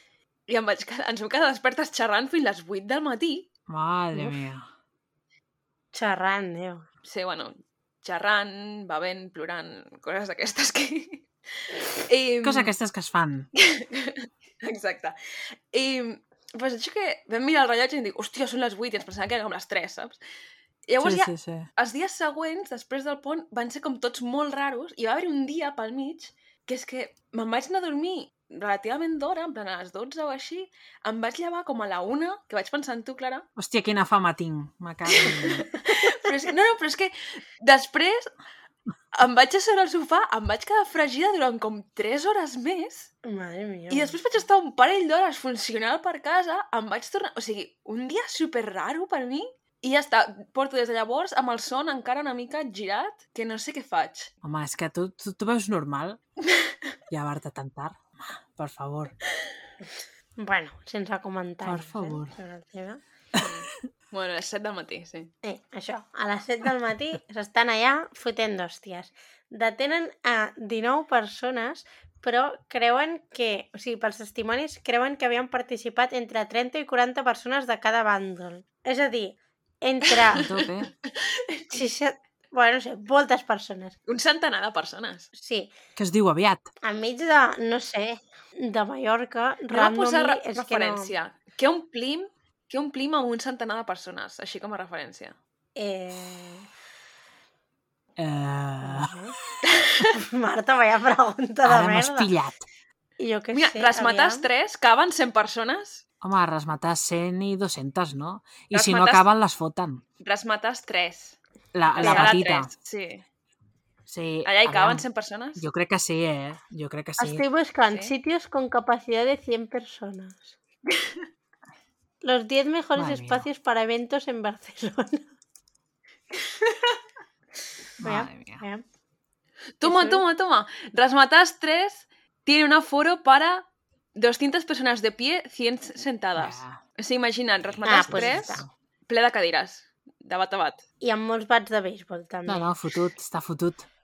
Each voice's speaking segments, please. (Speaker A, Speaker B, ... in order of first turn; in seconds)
Speaker A: 0.5-3.5, 7.0-12.7, 13.6-20.2, 20.9-33.5, 35.1-38.3, 39.1-43.1, 43.9-54.3, 63.4-65.3, 80.2-81.8, 84.1-85.3, 89.7-95.4, 99.7-100.2, 103.5-106.0, 108.7-109.2, 110.2-111.4, 111.9-113.3, 114.5-115.6, 126.5-127.0, 129.8-140.8
Speaker B: 3.7-4.7, 12.4-13.5, 21.0-21.7, 33.6-35.7, 54.4-56.2, 57.1-59.1, 61.6-62.3, 80.3-80.9, 86.0-86.7, 98.2-99.1, 101.6-102.6, 106.2-110.0, 111.7-112.7, 114.1-115.0, 115.6-117.4, 123.0-123.5, 128.0-128.6, 136.4-136.8, 137.9-138.7, 142.5-143.9
Speaker C: 4.1-4.4, 5.9-6.9, 43.2-44.2, 60.4-63.0, 65.4-80.4, 81.7-84.0, 85.3-85.7, 86.8-91.1, 95.8-96.7, 98.8-99.4, 100.1-102.3, 103.2-104.5, 112.0-112.3, 117.2-120.5, 122.2-125.3, 128.0-128.8, 129.8-130.2, 137.8-138.7, 141.0-142.7